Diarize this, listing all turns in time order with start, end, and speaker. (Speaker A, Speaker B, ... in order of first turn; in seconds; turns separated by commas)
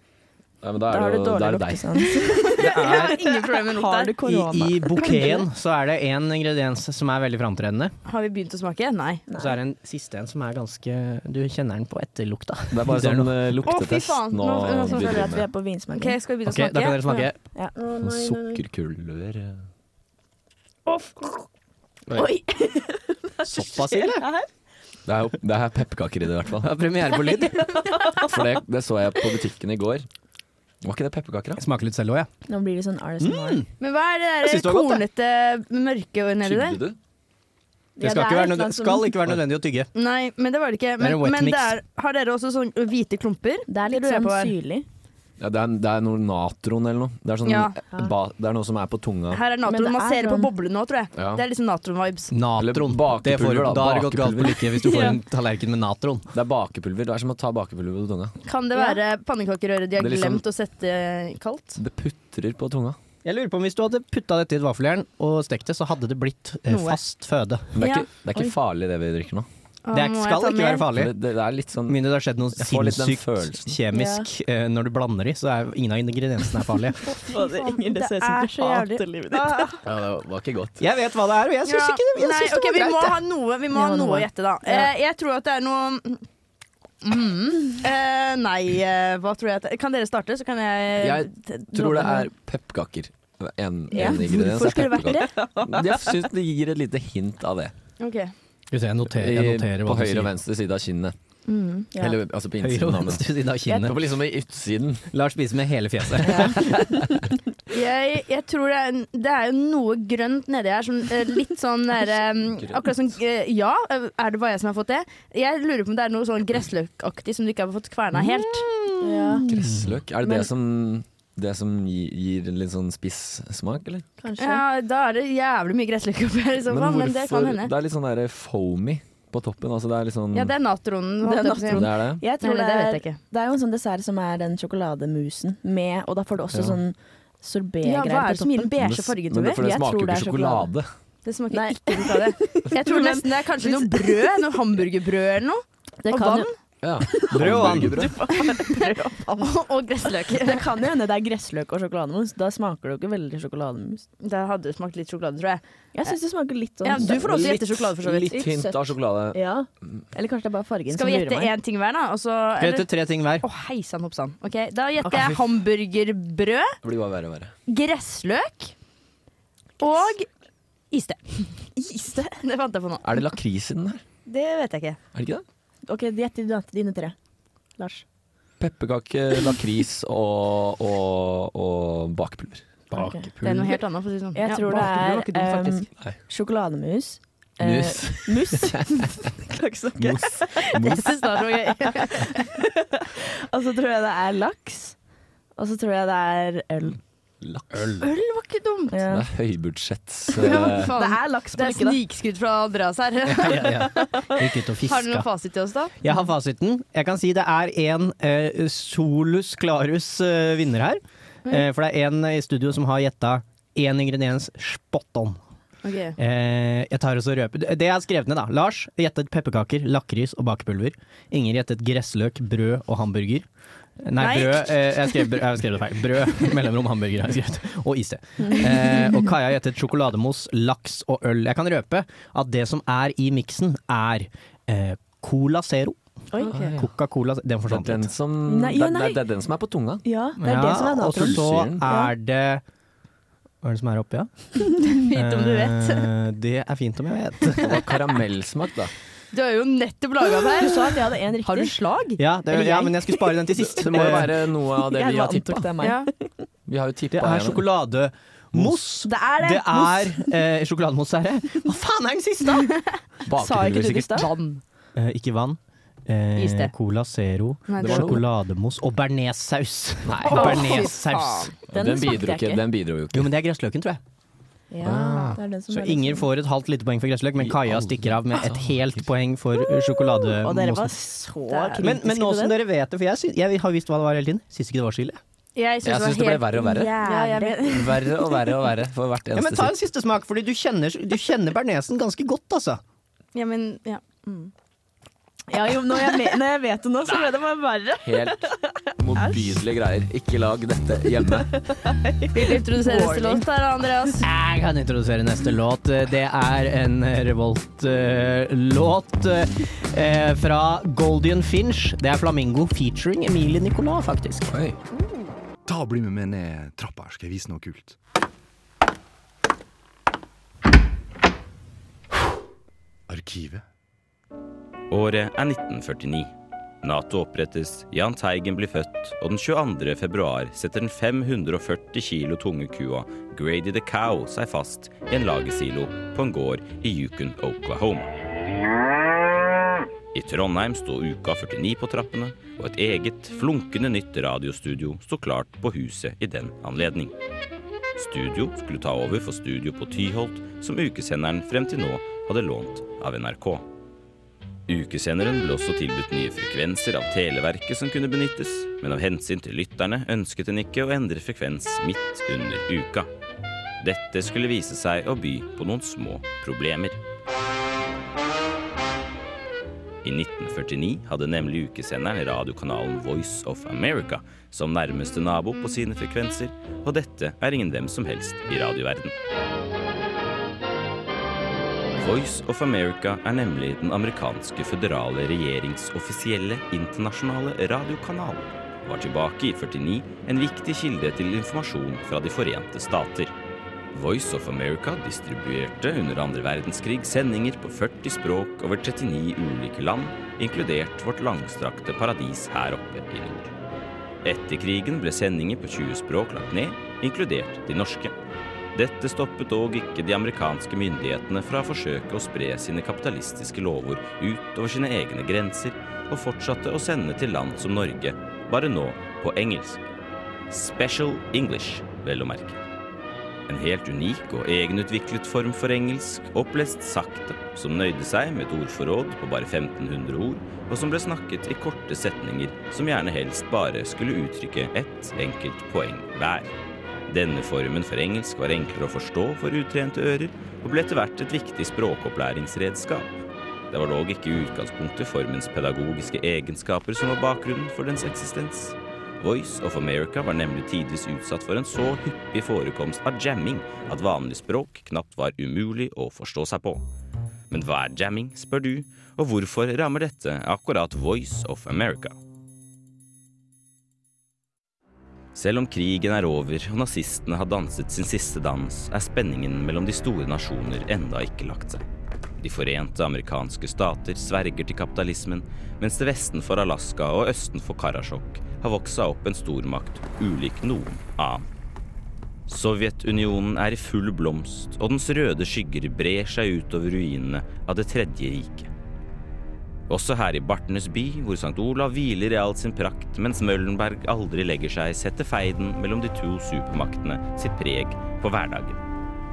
Speaker A: 0.6-2.0, Speaker B: 0.9-5.5, Speaker C: 2.4-4.1, Speaker D: 2.6-3.2, Speaker D: 4.2-7.9, Speaker C: 8.1-9.3, Speaker B: 9.3-9.6, Speaker D: 9.4-13.3, Speaker A: 12.7-15.5, Speaker C: 13.7-15.4, Speaker B: 14.9-16.1, Speaker C: 15.9-17.3, Speaker D: 16.4-17.4, Speaker B: 17.5-18.6, Speaker A: 18.0-19.6, Speaker B: 20.9-21.4, Speaker B: 22.1-24.5, Speaker D: 23.4-24.2, Speaker A: 25.1-26.7, Speaker D: 26.6-27.8, Speaker B: 27.4-28.3, Speaker A: 28.1-30.1, Speaker A: 30.8-31.6, Speaker D: 31.6-32.3, Speaker B: 32.5-33.6, Speaker D: 33.2-33.7, Speaker C: 33.8-36.8, Speaker D: 34.4-35.0, Speaker A: 36.4-37.0, Speaker B: 38.0-39.2, Speaker D: 38.0-39.9, Speaker C: 39.9-44.5, Speaker D: 41.0-41.8, Speaker B: 43.7-44.9, Speaker A: 45.4-49.4, Speaker C: 47.5-47.8, Speaker C: 49.3-52.3, Speaker B: 49.6-50.5, Speaker A: 51.1-51.4, Speaker D: 52.3-56.3, Speaker A: 52.6-54.9, Speaker A: 56.3-58.3, Speaker C: 58.4-61.8, Speaker B: 58.7-59.0, Speaker A: 60.0-60.4, Speaker A: 61.8-63.0, Speaker D: 63.2-67.7, Speaker C: 66.7-67.0, Speaker A: 67.7-69.5, Speaker C: 67.8-68.0, Speaker C: 69.8-70.9, Speaker D: 69.9-71.1, Speaker A: 70.9-73.8, Speaker D: 71.9-77.0, Speaker B: 73.9-74.3, Speaker B: 77.1-79.8, Speaker C: 77.2-79.7, Speaker A: 79.9-80.8, Speaker D: 80.8-83.1, Speaker C: 81.6-86.2, Speaker B: 83.7-84.9, Speaker C: 87.0-92.2, Speaker A: 91.0-97.7, Speaker C: 93.9-95.3, Speaker B: 94.0-94.2, Speaker B: 95.3-95.9, Speaker C: 98.0-98.3, Speaker D: 98.7-100.3, Speaker A: 99.0-101.1, Speaker C: 101.5-101.9, Speaker A: 102.0-105.1, Speaker D: 102.6-103.9, Speaker D: 105.1-107.0, Speaker B: 106.2-107.0, Speaker C: 107.7-118.7, Speaker B: 119.0-119.5, Speaker A: 119.1-124.0, Speaker D: 119.6-119.9, Speaker B: 124.2-124.6, Speaker C: 124.4-127.7, Speaker A: 126.7-130.5, Speaker C: 130.3-133.2, Speaker B: 131.2-138.7, Speaker A: 131.7-132.2, Speaker A: 136.5-136.8, Speaker C: 137.8-140.4, Speaker A: 138.8-140.8, Speaker B: 139.6-140.7, Speaker C: 141.2-146.5, Speaker B: 141.5-144.3, Speaker B: 146.0-146.5, Speaker A: 146.8-148.1, Speaker B: 147.1-149.6, Speaker D: 147.4-148.1, Speaker C: 149.4-150.6, Speaker B: 150.3-154.1, Speaker C: 154.2-156.1, Speaker B: 155.9-157.5, Speaker C: 156.8-158.4, Speaker A: 157.0-159.9, Speaker B: 158.3-161.5, Speaker C: 160.9-162.9, Speaker D: 162.6-163.4, Speaker C: 163.4-166.7, Speaker A: 166.8-167.5, Speaker C: 167.7-168.7, Speaker C: 169.8-170.2, Speaker C: 170.9-171.4, Speaker B: 171.8-172.4, Speaker C: 172.4-173.0, Speaker A: 173.0-174.0, Speaker C: 174.2-175.0, Speaker A: 175.1-175.4, Speaker B: 175.9-177.1, Speaker B: 177.8-178.0, Speaker A: 178.6-182.6, Speaker B: 182.9-183.3, Speaker C: 183.4-185.8, Speaker D: 183.4-183.7, Speaker B: 184.3-194.9, Speaker A: 187.6-189.0, Speaker A: 190.0-191.1, Speaker C: 190.8-192.2, Speaker B: 195.6-197.0, Speaker A: 197.4-198.0, Speaker C: 198.0-199.0, Speaker B: 198.9-199.2, Speaker A: 199.1-200.9, Speaker C: 200.3-204.1, Speaker B: 200.7-202.0, Speaker D: 203.3-205.3, Speaker B: 203.8-204.4, Speaker C: 204.8-206.0, Speaker D: 206.0-215.4, Speaker C: 215.8-216.2, Speaker D: 216.2-223.4, Speaker D: 224.0-236.0, Speaker C: 224.2-225.3, Speaker B: 228.4-229.3, Speaker B: 236.3-236.6, Speaker C: 236.4-236.7, Speaker A: 236.5-236.9, Speaker D: 236.8-238.1, Speaker A: 237.7-240.0, Speaker B: 238.5-239.2, Speaker B: 240.0-242.1, Speaker D: 240.4-242.6, Speaker A: 241.1-241.8, Speaker D: 243.6-244.5, Speaker C: 244.8-246.1, Speaker D: 245.1-247.7, Speaker A: 247.6-248.9, Speaker C: 249.3-252.9, Speaker B: 250.5-251.7, Speaker D: 252.2-254.3, Speaker B: 252.5-253.4, Speaker A: 253.5-255.7, Speaker B: 254.7-256.1, Speaker C: 255.8-256.1, Speaker A: 256.7-257.6, Speaker D: 257.1-262.6, Speaker A: 258.5-258.8, Speaker B: 259.0-260.3, Speaker A: 263.3-264.3, Speaker B: 263.4-264.3, Speaker C: 264.1-264.6, Speaker D: 264.9-271.5, Speaker C: 266.4-266.7, Speaker C: 267.7-268.2, Speaker A: 267.8-268.2, Speaker A: 270.0-270.8, Speaker C: 270.3-271.5, Speaker B: 270.3-270.9, Speaker A: 271.7-273.3, Speaker B: 271.7-272.6, Speaker D: 273.1-274.0, Speaker B: 274.7-276.3, Speaker A: 274.8-275.4, Speaker D: 275.7-280.9, Speaker A: 277.4-279.1, Speaker B: 279.6-282.6, Speaker C: 281.5-281.9, Speaker D: 281.8-285.2, Speaker C: 285.5-287.6, Speaker A: 285.8-286.9, Speaker B: 287.0-288.0, Speaker A: 287.6-289.8, Speaker D: 289.3-292.8, Speaker C: 293.3-294.0, Speaker B: 295.5-299.5, Speaker A: 298.0-301.5, Speaker B: 301.7-303.4, Speaker C: 302.3-304.2, Speaker D: 304.2-314.5, Speaker A: 314.5-314.8, Speaker E: 315.6-317.9, Speaker E: 323.1-323.6, Speaker F: 324.9-326.3, Speaker F: 326.8-338.1, Speaker F: 340.1-347.1, Speaker F: 348.0-353.6, Speaker F: 354.7-363.1, Speaker F: 363.8-367.0, Speaker F: 370.0-379.1, Speaker F: 382.0-393.3, Speaker F: 393.9-403.5, Speaker F: 404.2-408.1, Speaker F: 408.7-419.8, Speaker F: 420.5-422.6, Speaker F: 423.5-436.5, Speaker F: 437.1-443.1, Speaker F: 443.7-456.8, Speaker F: 457.5-462.1, Speaker F: 465.3-471.8, Speaker F: 472.4-481.4, Speaker F: 482.5-488.7, Speaker F: 489.9-498.8